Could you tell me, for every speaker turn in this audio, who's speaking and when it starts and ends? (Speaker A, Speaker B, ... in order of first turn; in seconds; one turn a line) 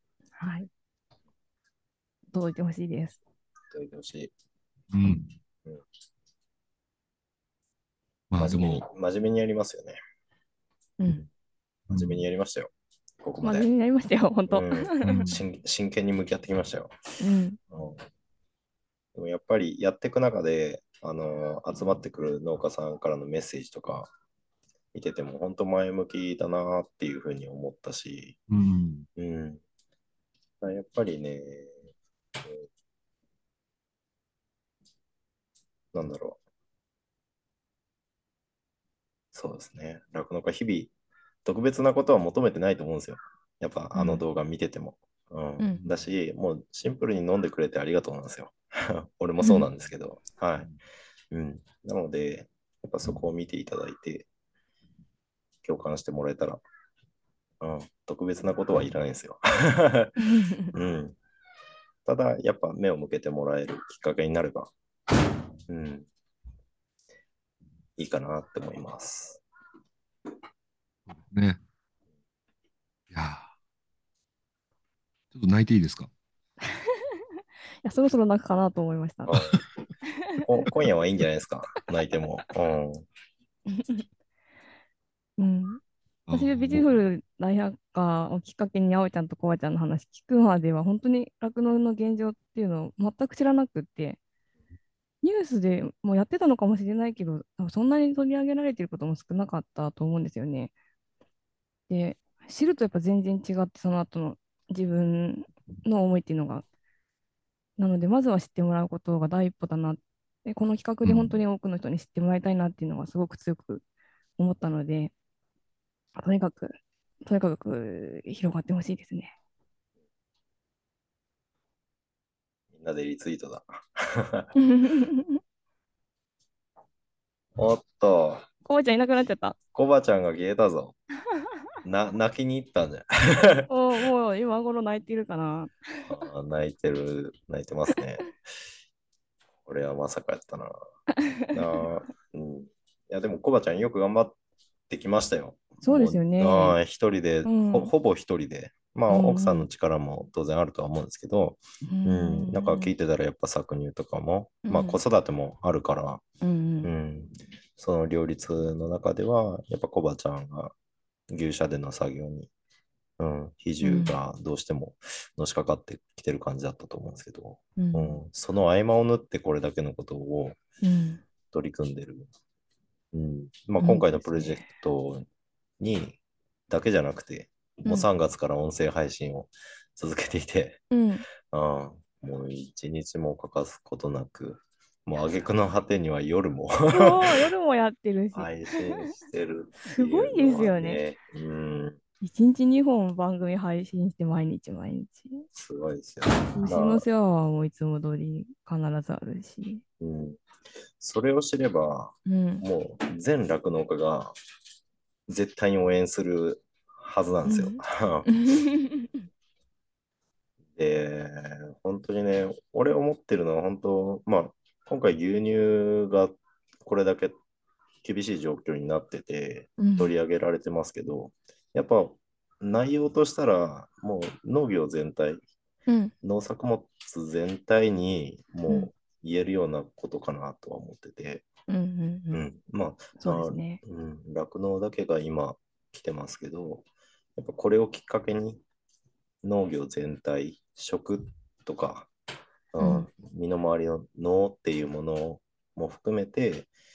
Speaker A: 0.4-0.7
Speaker A: 2.3-3.2
Speaker B: 3.7-4.3
Speaker C: 4.9-5.3
Speaker C: 8.3-8.8
Speaker B: 8.4-10.0
Speaker A: 11.0-11.3
Speaker C: 11.9-12.2
Speaker B: 11.9-13.7
Speaker A: 13.4-15.3
Speaker B: 14.5-16.9
Speaker C: 15.0-15.4
Speaker A: 17.2-17.6
Speaker B: 17.7-18.0
Speaker B: 19.1-24.1
Speaker B: 24.9-28.4
Speaker C: 28.5-29.1
Speaker B: 29.2-29.6
Speaker B: 30.6-31.8
Speaker B: 35.9-36.4
Speaker B: 39.3-40.9
Speaker B: 41.4-50.7
Speaker A: 43.9-44.2
Speaker A: 49.4-49.7
Speaker B: 51.3-54.3
Speaker B: 55.6-56.6
Speaker B: 57.6-60.1
Speaker A: 60.2-60.7
Speaker B: 60.7-61.1
Speaker B: 62.0-64.7
Speaker B: 65.7-66.1
Speaker B: 68.0-69.4
Speaker C: 71.1-71.6
Speaker C: 73.1-73.5
Speaker C: 75.3-76.1
Speaker A: 77.8-79.3
Speaker B: 79.3-79.6
Speaker B: 80.4-83.0
Speaker A: 83.7-84.0
Speaker A: 85.4-85.8
Speaker C: 86.3-87.0
Speaker A: 86.3-94.2
Speaker A: 95.2-100.7
Speaker A: 101.9-106.6
Speaker A: 107.8-113.8
Speaker C: 111.0-111.4
Speaker A: 114.4-115.1
Speaker A: 116.2-119.3
Speaker B: 122.7-124.5
Speaker A: 124.6-125.4
Speaker B: 127.5-128.5
Speaker A: 128.6-129.6
Speaker B: 129.7-131.0
Speaker B: 131.8-133.7
Speaker A: 133.7-135.7
Speaker B: 136.1-138.4
Speaker B: 139.7-140.8
Speaker B: 141.5-144.3
Speaker B: 144.9-156.2
Speaker A: 145.8-146.8
Speaker A: 147.4-147.9
Speaker A: 149.1-149.7
Speaker A: 151.8-152.9
Speaker A: 154.7-155.0
Speaker A: 156.4-156.9
Speaker B: 156.8-160.7
Speaker B: 161.3-162.5
Speaker B: 163.2-170.6
Speaker A: 163.8-164.1
Speaker A: 167.8-168.2
Speaker A: 170.8-171.2
Speaker B: 171.5-172.3
Speaker B: 173.1-175.2
Speaker A: 173.8-174.6
Speaker B: 175.8-176.2
Speaker B: 176.7-180.9
Speaker A: 180.9-181.3
Speaker B: 181.5-187.4
Speaker A: 186.9-189.0
Speaker B: 188.3-192.0
Speaker A: 189.8-191.0
Speaker A: 192.2-195.4
Speaker B: 195.5-197.0
Speaker A: 196.5-199.8
Speaker B: 200.0-200.4
Speaker B: 201.0-204.3
Speaker A: 202.2-202.6
Speaker B: 205.3-208.5
Speaker A: 207.4-209.2
Speaker B: 210.8-217.3
Speaker B: 218.0-225.4
Speaker A: 219.8-220.1
Speaker A: 225.9-226.1
Speaker B: 226.2-231.4
Speaker A: 231.7-232.4
Speaker B: 232.3-238.6
Speaker A: 233.2-233.8
Speaker B: 239.4-242.1
Speaker B: 242.7-246.7
Speaker A: 242.8-243.1